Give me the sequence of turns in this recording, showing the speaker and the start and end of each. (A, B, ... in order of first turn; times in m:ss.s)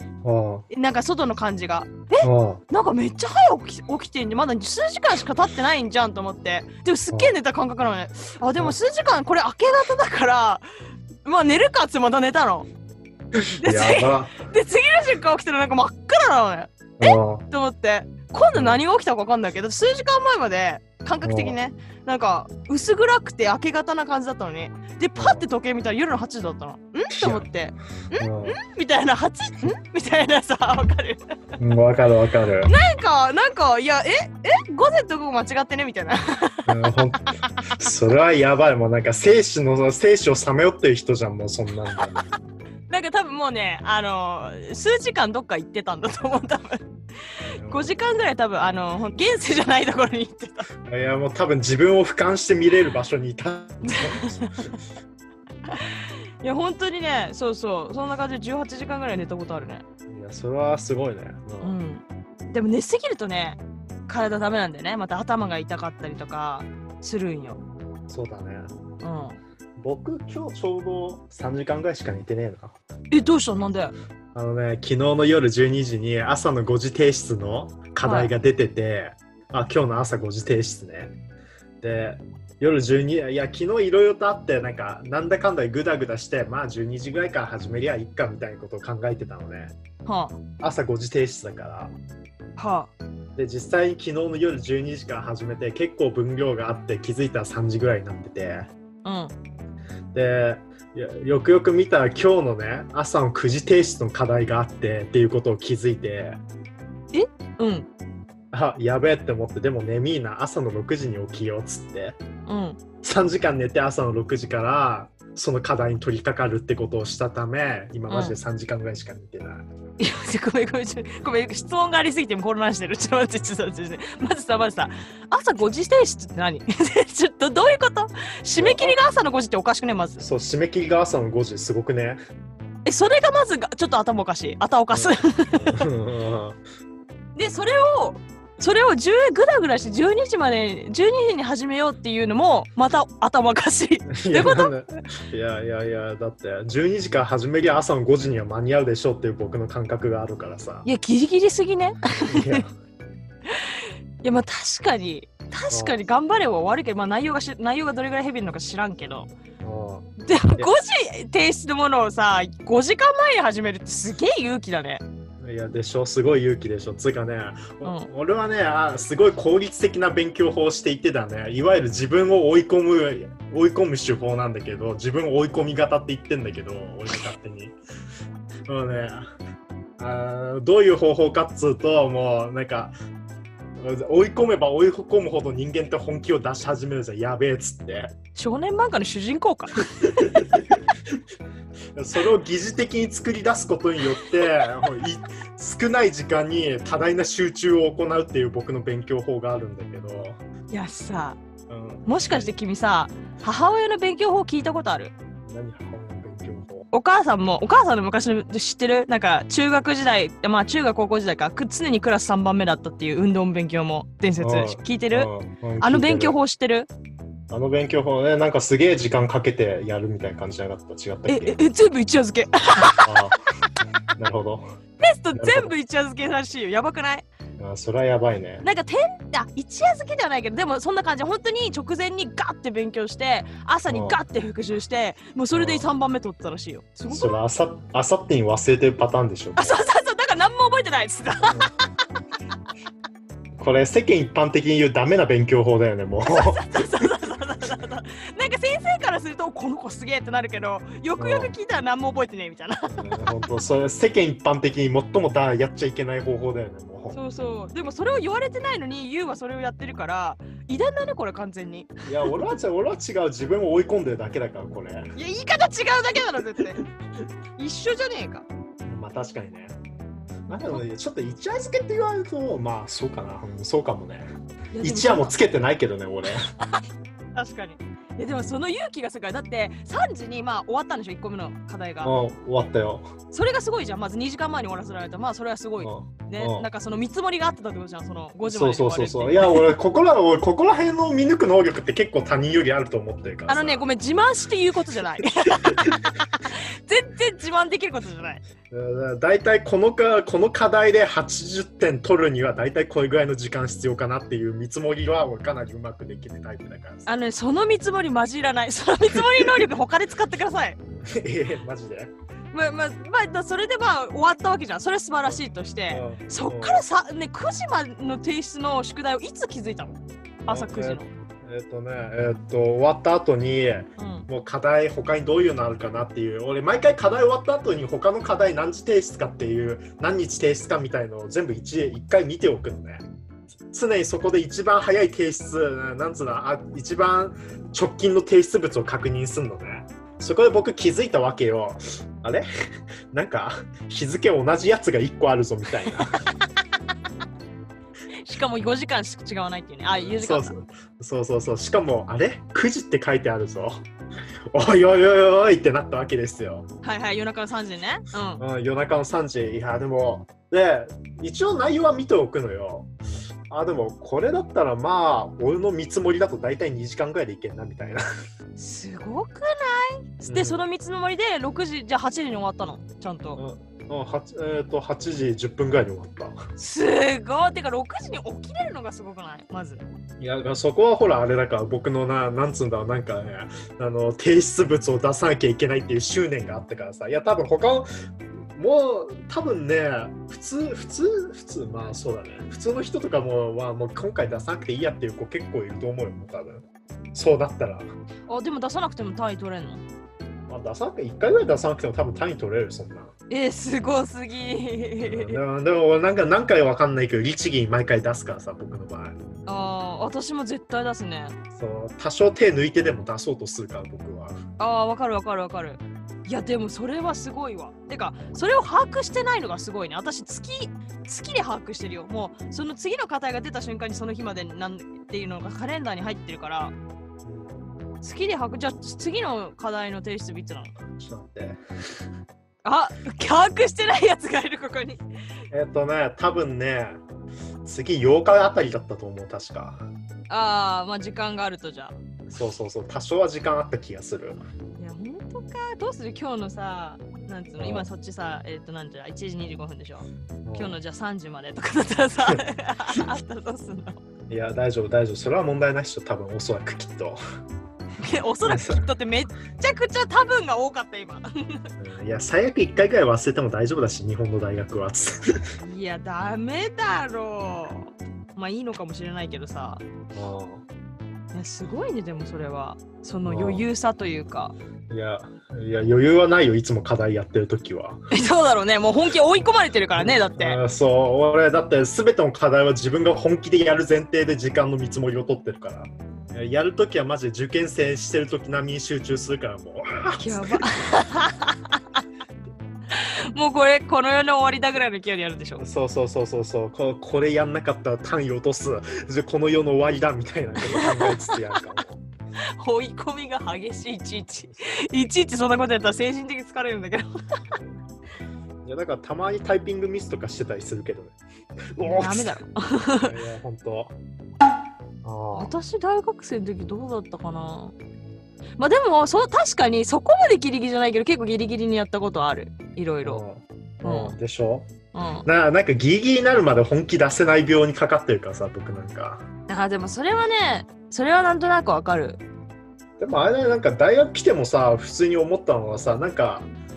0:00.2-0:00.6 A
0:00.7-0:10.6 B
0:02.2-0:02.6 A
0:11.2-0:12.7 B
0:13.3-0:14.4 A
0:13.6-0:31.2 B
0:17.0-0:17.4 A
0:21.2-0:21.6 A
0:25.2-0:25.4 A
0:27.1-0:27.5 A
0:28.1-0:28.6 A
0:31.6-0:32.7 A
0:32.6-0:37.5 B
0:36.7-0:42.2 A
0:42.9-0:46.8 B
0:47.4-0:47.9 A
0:47.6-0:50.7 B
0:50.8-0:54.7 A
0:53.9-0:54.7 B
0:55.7-0:59.8 B
1:00.1-1:01.8 A
1:01.6-1:07.6 B
1:08.1-1:08.7 A
1:09.0-1:09.4 B
1:09.8-1:12.7 A
1:13.1-1:13.9 B
1:14.3-1:21.1 A
1:18.0-1:18.3 B
1:21.8-1:29.7 A
1:30.0-1:30.4 B
1:30.6-1:31.9 A
1:32.6-1:32.9 B
1:33.4-1:38.7 A
1:39.0-1:39.3 B
1:40.1-1:46.4 A
1:47.1-1:47.9 B
1:48.5-1:52.2 A
1:52.5-1:52.8 B
1:53.0-1:59.6 A
1:58.1-1:58.4 B
2:00.0-2:10.2 B
2:08.6-2:09.0 A
2:10.2-2:12.2 A
2:12.8-2:15.8 B
2:14.9-2:16.6 A
2:17.4-2:24.7 B
2:24.1-2:30.8 A
2:30.8-2:32.6 B
2:32.2-2:32.7 A
2:33.5-2:39.3 B
2:35.7-2:36.0 A
2:39.6-2:40.7 A
2:40.2-2:45.0 B
2:45.4-2:57.7 A
2:47.8-2:48.1 B
2:58.7-2:59.3 A
3:00.0-3:02.9 A
3:03.8-3:08.1 A
3:08.4-3:10.4 B
3:10.0-3:11.2 A
3:11.9-3:20.4 A
3:20.7-3:21.4 B
3:21.7-3:22.5 A
3:22.0-3:25.1 B
3:25.4-3:26.9 A
3:26.9-3:35.3 B
3:34.4-3:36.4 A
3:35.8-3:36.9 B
3:37.5-3:41.6 A
3:41.3-3:43.2 B
3:43.0-3:44.7 A
3:45.0-3:47.2 B
3:45.4-3:45.7 A
3:47.6-3:48.6 A
3:48.6-3:57.4 B
3:53.9-3:54.2 A
3:55.5-3:55.8 A
3:57.1-3:59.8 A
3:59.6-4:01.7 B
4:03.6-4:06.7 A
4:06.3-4:13.2 B
4:11.2-4:11.5 A
4:12.9-4:17.2 A
4:17.1-4:22.4 B
4:22.0-4:25.1 A
4:25.1-4:26.8 B
4:27.6-4:28.4 B
4:28.8-4:29.7 A
4:30.5-4:34.3 A
4:30.5-4:30.8 B
4:34.7-4:35.3 B
4:34.8-4:36.5 A
4:37.3-4:42.1 B
4:42.0-4:43.1 A
4:43.3-4:49.7 B
4:45.8-4:46.7 A
4:48.4-4:53.8 A
4:53.5-4:58.4 B
4:55.6-4:56.0 A
4:58.7-5:07.1 A
5:07.0-5:10.8 B
5:11.0-5:12.1 A
5:12.5-5:21.1 B
5:15.2-5:16.8 A
5:20.5-5:33.0 A
5:24.0-5:24.2 B
5:33.7-5:42.4 A
5:43.1-5:46.3 A
5:48.2-5:50.5 B
5:49.9-5:53.8 A
5:54.5-5:56.7 A
5:56.8-5:58.4 B
5:58.4-6:02.9 A
6:03.5-6:08.0 A
6:08.6-6:13.4 B
6:10.2-6:10.6 A
6:13.4-6:16.4 A
6:16.6-6:19.8 B
6:20.2-6:27.9 A
6:28.5-6:37.9 A
6:38.3-6:39.8 B
6:40.5-6:43.1 A
6:43.3-6:45.4 B
6:45.0-6:49.2 A
6:49.5-6:51.4 B
6:51.5-6:54.4 A
6:54.6-7:06.7 B
7:07.2-7:07.6 A
7:08.0-7:10.7 B
7:10.9-7:11.6 A
7:12.6-7:15.0 B
7:15.5-7:17.0 A
7:17.6-7:19.8 A
7:20.3-7:21.9 B
7:22.3-7:24.4 A
7:24.8-7:34.0 B
7:27.6-7:27.8 A
7:30.4-7:30.8 A
7:34.3-7:37.2 A
7:38.0-7:41.6 B
7:38.4-7:38.8 A
7:41.8-7:45.4 A
7:45.6-7:49.8 B
7:50.1-7:50.6 A
7:51.3-7:54.5 B
7:53.2-7:53.6 A
7:54.9-7:58.0 A
7:58.1-8:00.6 B
8:00.0-8:10.7 A
8:10.2-8:12.0 B
8:12.9-8:15.6 B
8:15.6-8:22.0 A
8:20.6-8:21.6 B
8:22.6-8:27.1 B
8:24.4-8:24.8 A
8:28.6-8:31.2 A
8:31.7-8:32.4 A
8:31.8-8:33.1 B
8:33.0-8:33.9 A
8:35.0-8:35.5 A
8:35.3-8:37.7 B
8:38.6-8:43.2 B
8:43.0-8:44.7 A
8:43.8-8:44.1 B
8:44.9-8:45.2 B
8:45.2-8:49.2 A
8:49.5-8:52.2 B
8:53.0-8:56.5 A